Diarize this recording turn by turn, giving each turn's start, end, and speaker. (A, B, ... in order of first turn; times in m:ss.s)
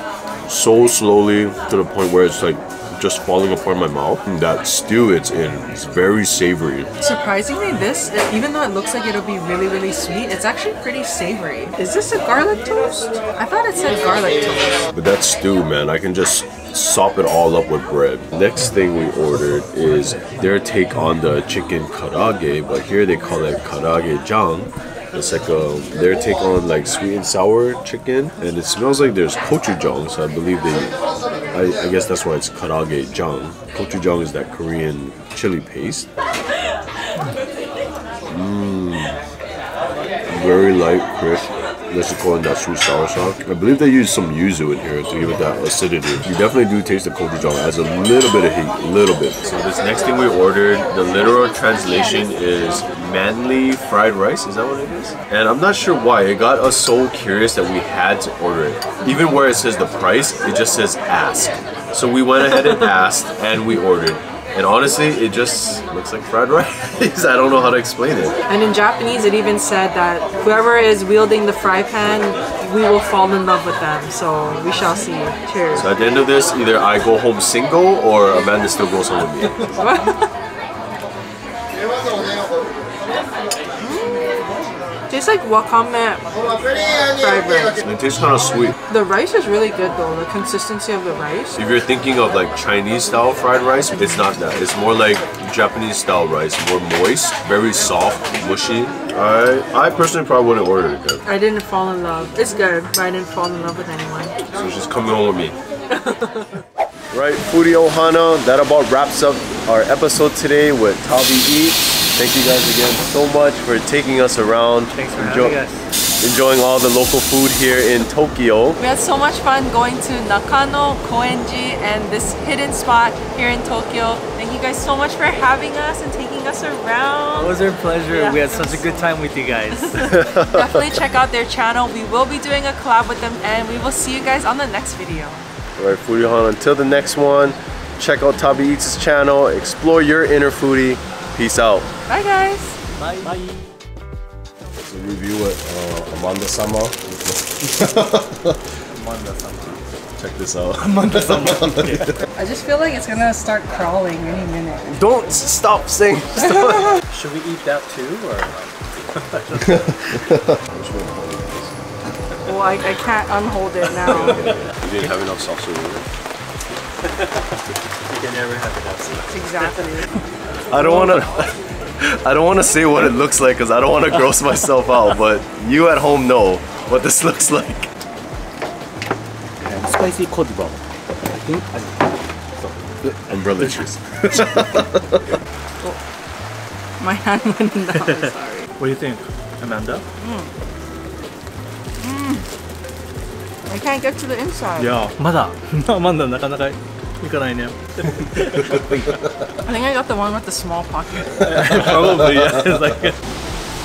0:00.5-0:06.9 A
0:07.0-0:14.8 B
0:14.9-0:31.0 A
0:31.5-0:36.1 A
0:38.3-0:39.2 A
0:40.3-1:08.4 A
1:08.5-1:15.9 B
1:15.7-1:19.7 A
1:19.8-1:20.3 B
1:23.8-1:24.5 B
1:25.1-1:27.8 B
1:27.8-1:28.8 A
1:28.9-1:31.6 B
1:31.6-1:41.2 A
1:41.2-1:44.4 B
1:44.5-1:45.6 A
1:45.9-1:46.6 B
1:47.1-1:55.6 A
1:54.9-1:55.9 C
1:56.2-1:58.8 A
1:58.8-2:07.6 B
2:07.4-2:10.2 C
2:08.1-2:09.1 B
2:09.8-2:15.4 B
2:10.0-2:10.9 A
2:15.8-2:21.9 A
2:22.1-2:22.8 B
2:23.0-2:23.6 C
2:24.8-2:28.6 A
2:28.9-2:29.8 C
2:30.2-2:32.2 A
2:30.8-2:32.1 C
2:32.3-2:35.0 B
2:34.9-2:37.0 A
2:37.1-2:39.8 C
2:39.7-2:41.8 A
2:42.4-2:44.5 B
2:44.0-2:46.1 A
2:44.3-2:44.6 C
2:48.1-2:49.9 C
2:49.3-2:50.1 B
2:50.7-2:57.9 A
2:59.6-3:03.8 D
3:03.0-3:05.3 A
3:07.0-3:08.7 B
3:08.0-3:10.0 C
3:10.2-3:10.5 B
3:12.0-3:12.5 B
3:13.7-3:15.1 B
3:14.8-3:19.0 C
3:19.6-3:21.9 B
3:21.4-3:23.2 C